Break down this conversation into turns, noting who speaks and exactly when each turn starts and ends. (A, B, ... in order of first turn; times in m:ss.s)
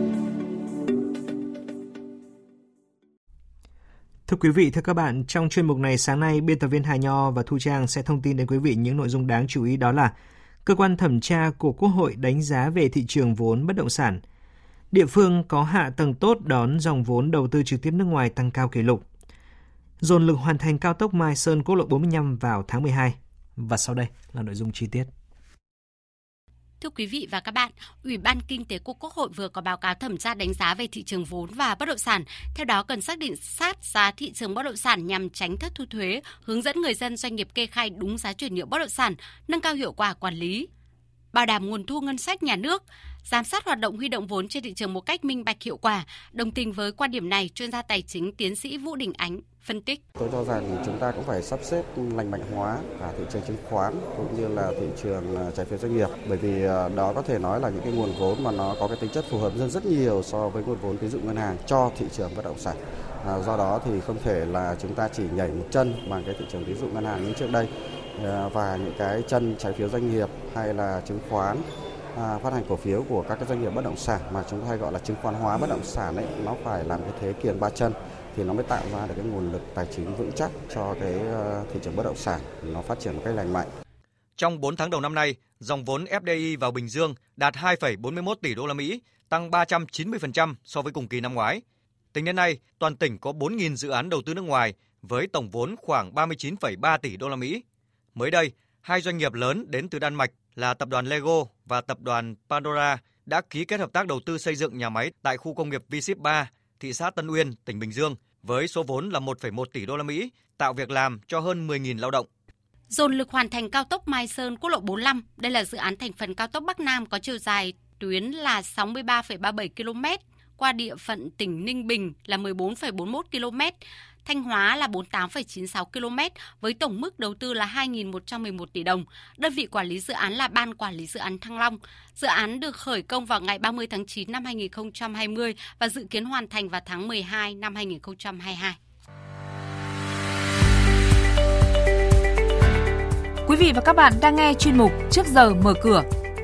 0:04.3-0:10.1 A
0:10.6-0:14.2 A
0:14.9-0:19.0 A
0:20.0-0:25.1 A
0:26.8-0:40.7 B
0:41.3-0:50.0 B
0:50.2-1:23.7 C
1:24.4-1:31.6 D
1:32.1-1:37.6 D
1:38.1-1:52.3 D
1:52.9-2:18.8 B
2:23.5-2:26.1 E